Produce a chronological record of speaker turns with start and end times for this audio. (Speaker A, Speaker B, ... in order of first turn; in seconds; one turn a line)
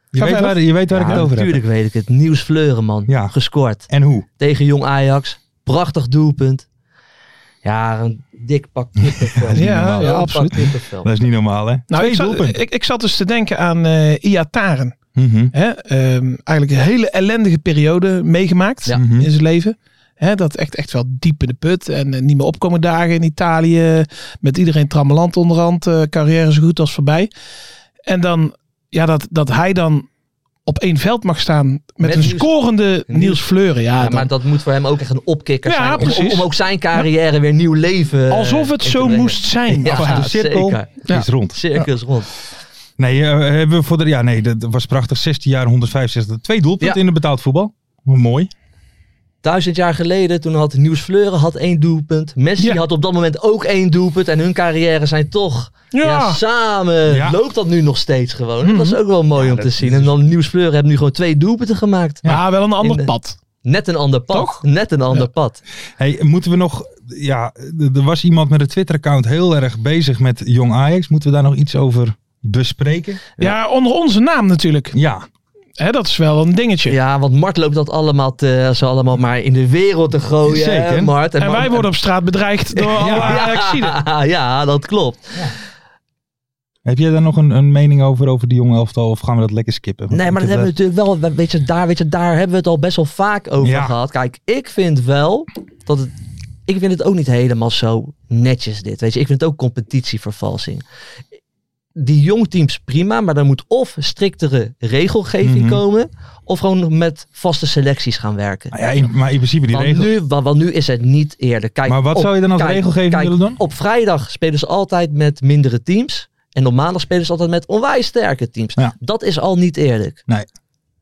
Speaker A: 0.1-1.6
Speaker B: 0.1-0.6
Speaker C: 0.9-3.9
Speaker A: 3.1-3.3
Speaker A: 3.9-4.2
Speaker C: 4.4-6.7
Speaker C: 7.6-11.1
Speaker A: 9.0-10.0
Speaker B: 9.6-10.7
Speaker A: 11.0-12.6
Speaker B: 11.9-14.9
Speaker A: 15.2-15.5
Speaker B: 15.5-27.3
Speaker A: 18.9-19.3
Speaker B: 28.1-30.1
Speaker B: 30.7-34.3
Speaker C: 32.0-32.5
Speaker C: 33.1-33.4
Speaker C: 34.0-42.3
Speaker B: 35.6-37.0
Speaker B: 38.3-40.3
Speaker A: 39.7-41.6
Speaker B: 41.1-41.8
Speaker A: 43.0-48.5
Speaker C: 49.4-63.1
Speaker B: 55.9-56.4
Speaker A: 57.1-57.4
Speaker B: 58.6-59.0
Speaker A: 59.4-60.1
Speaker B: 62.2-63.4
Speaker C: 63.6-65.6
Speaker B: 64.3-64.6
Speaker A: 66.0-73.2
Speaker B: 73.4-75.0
Speaker A: 74.9-75.2
Speaker B: 75.8-76.9
Speaker C: 76.9-81.8
Speaker A: 80.5-81.1
Speaker B: 81.4-84.0
Speaker C: 82.7-85.5
Speaker A: 83.0-83.5
Speaker A: 86.8-90.7
Speaker C: 90.1-96.1
Speaker A: 93.6-93.9
Speaker C: 96.7-100.8
Speaker C: 102.0-108.8
Speaker A: 105.4-105.8
Speaker A: 108.7-110.1
Speaker C: 109.7-120.2
Speaker A: 111.9-113.6